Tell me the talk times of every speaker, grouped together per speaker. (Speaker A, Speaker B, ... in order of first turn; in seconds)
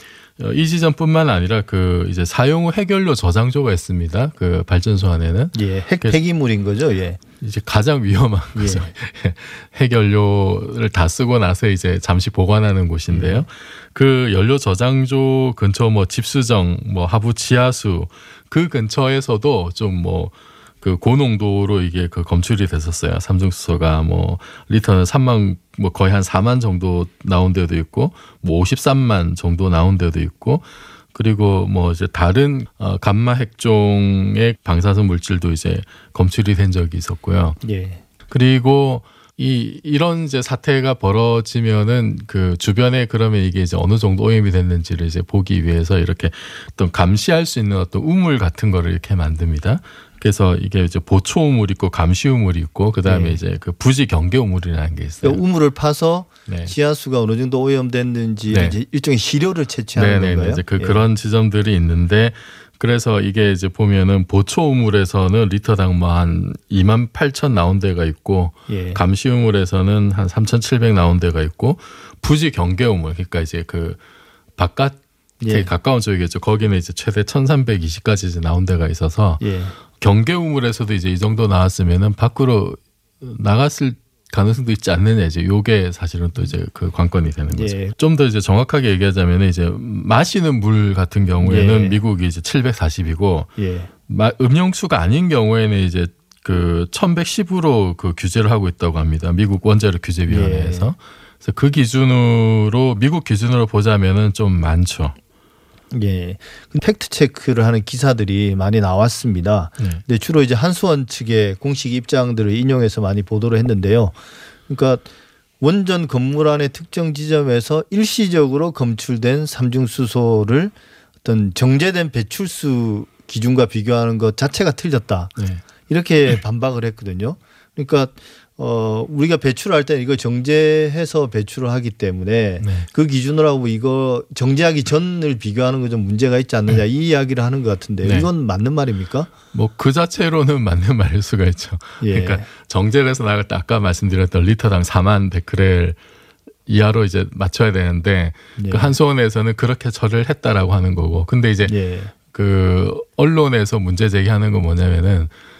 Speaker A: 0.4-6.2, 7.4-37.6, 38.3-55.4, 56.5-56.7, 58.5-58.8, 60.0-74.0, 74.6-79.4, 80.0-93.5, 94.1-105.1, 125.4-125.6, 132.6-132.8, 138.0-138.3, 139.5-146.0, 146.7-151.7, 152.3-155.3
Speaker B: 5.5-7.2, 8.6-8.9, 13.1-13.4, 37.6-38.0, 53.0-53.4, 55.2-61.0, 68.7-69.0, 75.4-75.7, 79.4-79.8, 87.5-88.0, 91.4-92.0, 93.6-93.9, 100.3-100.9, 105.9-114.1, 114.7-115.1, 115.6-125.3, 125.8-139.3, 142.0-142.5, 148.6-148.9, 151.6-152.1